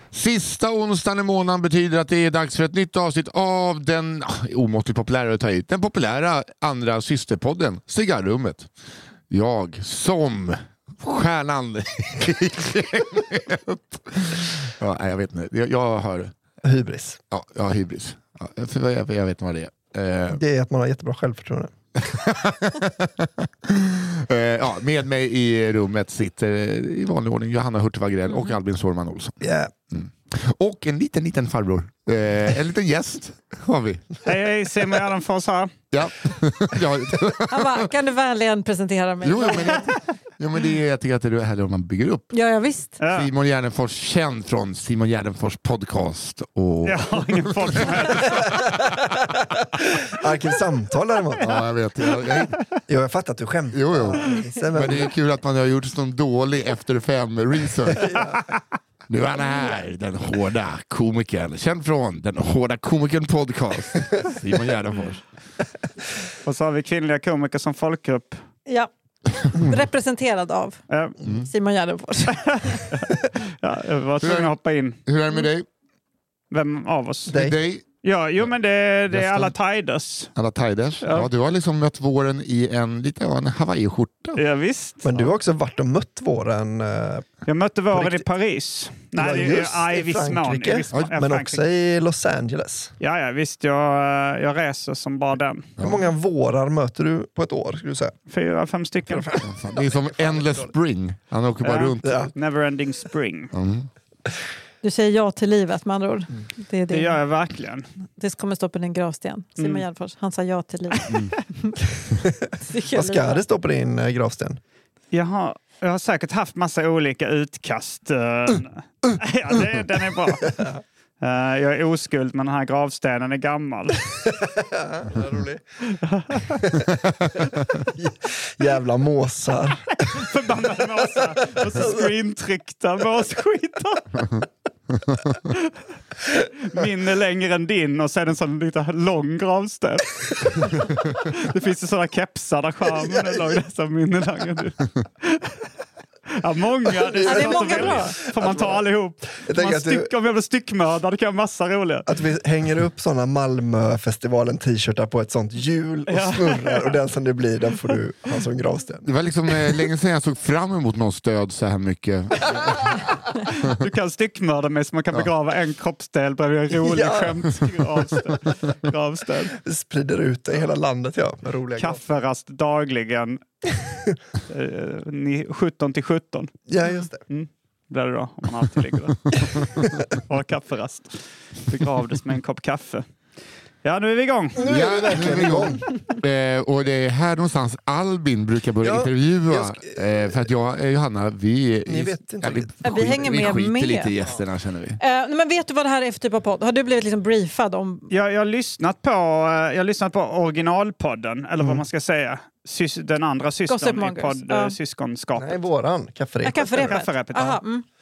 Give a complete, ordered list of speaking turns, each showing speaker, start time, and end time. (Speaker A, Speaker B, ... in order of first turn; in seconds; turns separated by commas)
Speaker A: 0.1-8.7, Speaker A: 9.3-16.3, Speaker B: 16.6-17.2, Speaker A: 17.3-20.4, Speaker B: 20.3-21.7, Speaker A: 21.9-34.1, Speaker B: 29.4-29.7, Speaker C: 34.2-35.7, Speaker A: 35.9-37.9, Speaker D: 37.5-39.9, Speaker A: 39.2-42.3, Speaker D: 42.3-43.0, Speaker C: 43.0-43.3, Speaker A: 43.1-49.6, Speaker C: 46.8-48.6, Speaker B: 50.1-51.5, Speaker A: 51.4-52.5, Speaker C: 52.1-52.6, Speaker B: 52.9-55.1, Speaker A: 53.7-58.2, Speaker B: 57.9-58.4, Speaker A: 59.1-65.2, Speaker C: 66.4-68.4, Speaker D: 68.7-72.9, Speaker C: 70.9-71.2, Speaker C: 72.3-75.0, Speaker A: 74.2-75.7, Speaker C: 76.5-77.4, Speaker B: 77.3-77.6, Speaker A: 77.3-77.8, Speaker C: 78.0-80.3, Speaker A: 79.1-79.6, Speaker A: 80.3-84.4, Speaker C: 81.0-81.3, Speaker C: 84.4-85.1, Speaker B: 85.0-87.3, Speaker C: 87.5-91.6, Speaker B: 87.9-88.2, Speaker B: 89.2-92.9, Speaker C: 93.0-95.7, Speaker A: 95.8-96.1, Speaker B: 95.8-98.1, Speaker C: 98.3-99.4, Speaker B: 99.1-100.8, Speaker A: 99.4-102.3, Speaker C: 101.6-103.5, Speaker B: 102.0-102.3, Speaker A: 103.5-103.9, Speaker D: 104.8-107.2, Speaker C: 106.9-107.9, Speaker D: 108.2-111.8, Speaker C: 109.6-109.8, Speaker A: 111.1-111.3, Speaker D: 112.6-113.4, Speaker B: 112.9-114.6, Speaker C: 115.1-120.7, Speaker C: 121.2-124.2, Speaker B: 124.2-125.6, Speaker C: 126.0-126.7, Speaker B: 126.6-126.8, Speaker A: 126.9-127.8, Speaker B: 127.9-130.0, Speaker C: 129.9-134.3, Speaker B: 131.2-132.0, Speaker C: 135.4-135.8, Speaker C: 136.2-145.7, Speaker C: 146.3-152.1, Speaker B: 147.1-147.8, Speaker D: 147.2-148.2, Speaker B: 148.4-148.8, Speaker B: 149.5-150.1, Speaker B: 152.1-159.1, Speaker C: 156.1-157.0, Speaker A: 159.0-163.2, Speaker C: 163.4-169.6, Speaker B: 166.7-167.5, Speaker B: 169.5-172.0, Speaker C: 171.8-173.7, Speaker C: 174.5-176.5, Speaker B: 176.7-177.2, Speaker C: 177.3-183.0, Speaker A: 179.7-180.0, Speaker C: 183.8-184.7, Speaker B: 184.6-185.8, Speaker A: 184.6-195.0, Speaker B: 188.8-189.9, Speaker B: 191.9-193.5, Speaker D: 192.8-194.1, Speaker D: 195.0-198.1, Speaker C: 198.1-205.6, Speaker D: 203.7-204.8, Speaker B: 205.3-207.0, Speaker D: 206.4-207.8, Speaker C: 206.5-207.6